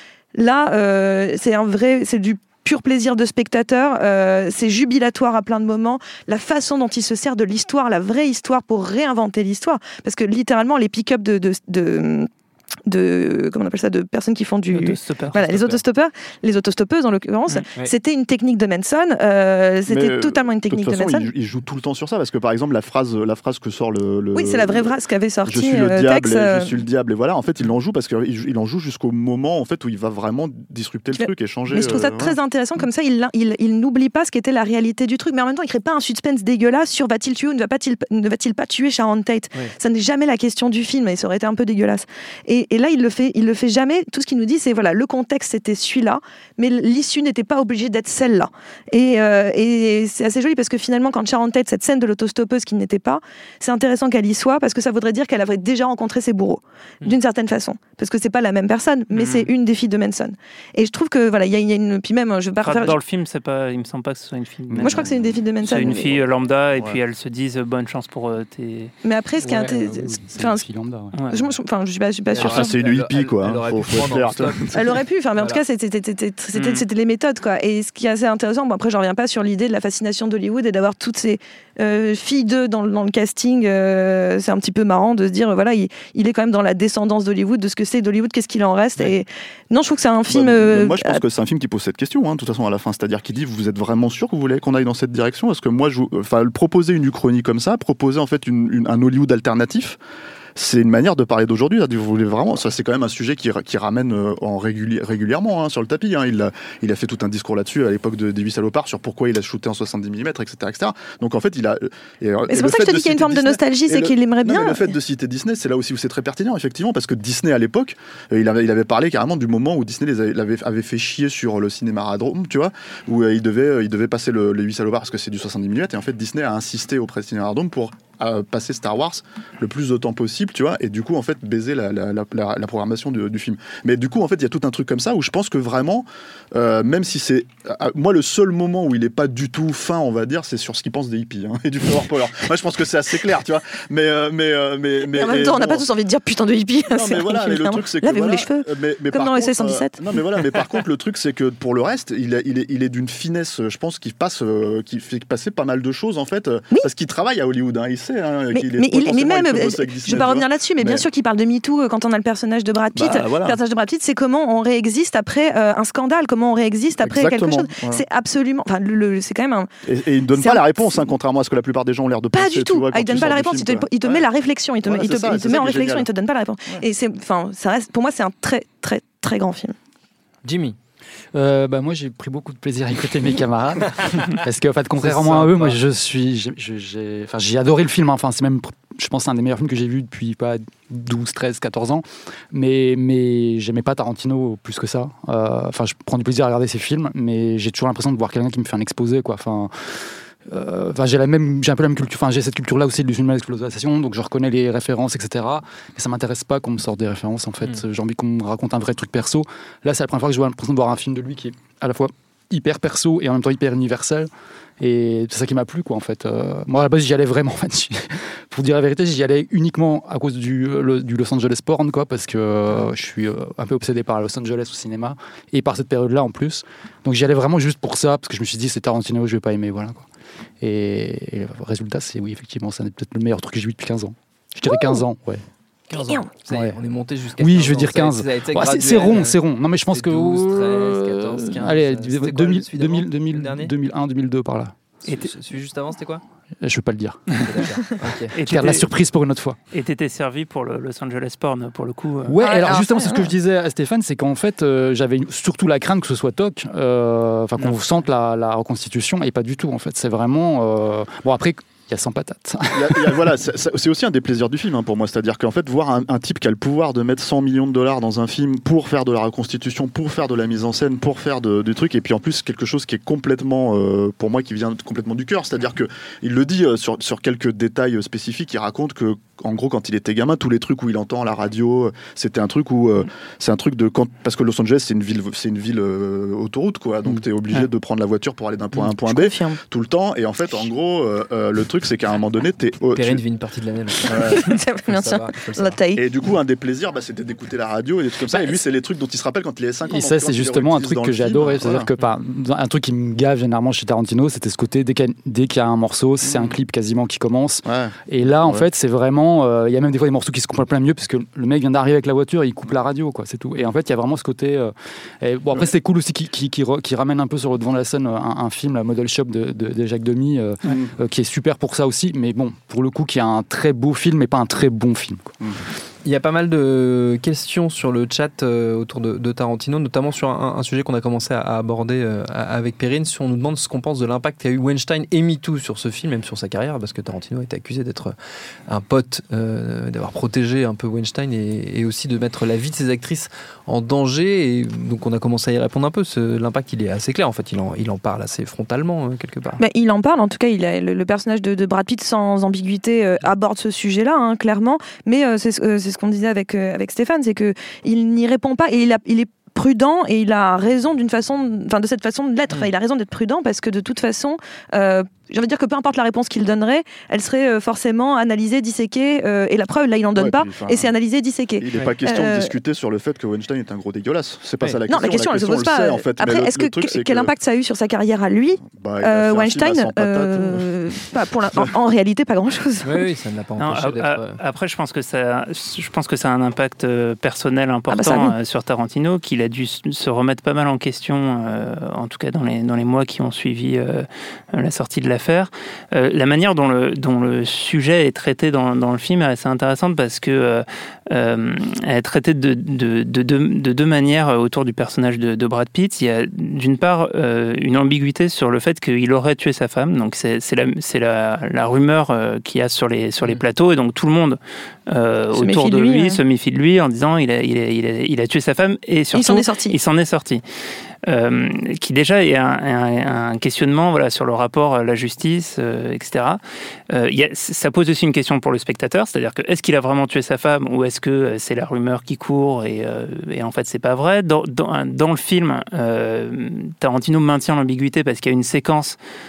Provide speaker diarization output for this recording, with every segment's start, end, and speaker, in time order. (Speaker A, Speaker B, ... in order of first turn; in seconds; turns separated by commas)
Speaker A: 0.3-12.3, Speaker A: 12.9-21.3, Speaker B: 14.7-15.4, Speaker C: 15.4-15.8, Speaker D: 19.9-24.9, Speaker A: 24.4-26.7, Speaker D: 25.5-32.4, Speaker A: 31.2-63.0, Speaker B: 59.1-59.5, Speaker B: 62.6-65.1, Speaker D: 64.7-65.4, Speaker A: 64.8-66.2, Speaker B: 65.6-69.0, Speaker A: 69.0-70.7, Speaker E: 69.4-71.2, Speaker B: 71.1-71.4, Speaker A: 71.3-72.7, Speaker C: 72.3-75.6, Speaker D: 72.4-74.6, Speaker A: 74.7-91.2, Speaker B: 76.5-76.8, Speaker D: 90.3-100.0, Speaker D: 100.6-145.8, Speaker A: 112.5-114.9, Speaker A: 145.1-150.0, Speaker D: 146.9-161.1, Speaker A: 158.5-169.7, Speaker D: 162.9-163.6, Speaker D: 167.0-168.0, Speaker D: 169.9-174.2, Speaker A: 170.3-171.1, Speaker A: 172.3-179.8, Speaker D: 174.8-176.1, Speaker C: 180.4-180.8, Speaker E: 181.3-214.3, Speaker C: 185.0-185.8, Speaker E: 214.8-230.1, Speaker E: 230.6-235.4, Speaker C: 235.9-239.4, Speaker A: 236.0-236.3, Speaker E: 236.5-236.8, Speaker E: 237.4-244.7, Speaker C: 239.9-243.7, Speaker C: 245.0-246.2, Speaker E: 246.6-247.3, Speaker C: 247.3-248.3, Speaker B: 248.3-248.9, Speaker E: 248.4-249.6, Speaker B: 249.7-252.4, Speaker E: 252.3-263.3, Speaker A: 252.4-253.3, Speaker D: 262.7-293.2, Speaker A: 289.0-289.6, Speaker C: 292.9-295.8, Speaker D: 294.1-294.4, Speaker A: 294.3-296.0, Speaker D: 296.0-301.9, Speaker E: 299.9-325.4, Speaker D: 306.2-306.5, Speaker D: 307.6-308.6, Speaker D: 320.7-320.9, Speaker C: 326.0-338.2, Speaker C: 338.7-349.6, Speaker A: 349.6-372.5, Speaker D: 370.2-370.9, Speaker D: 371.6-377.3, Speaker A: 374.9-382.9, Speaker D: 378.6-380.7, Speaker C: 382.8-384.4, Speaker B: 383.6-420.4, Speaker A: 387.9-388.3, Speaker A: 415.3-416.2, Speaker A: 419.1-419.8, Speaker B: 421.0-439.0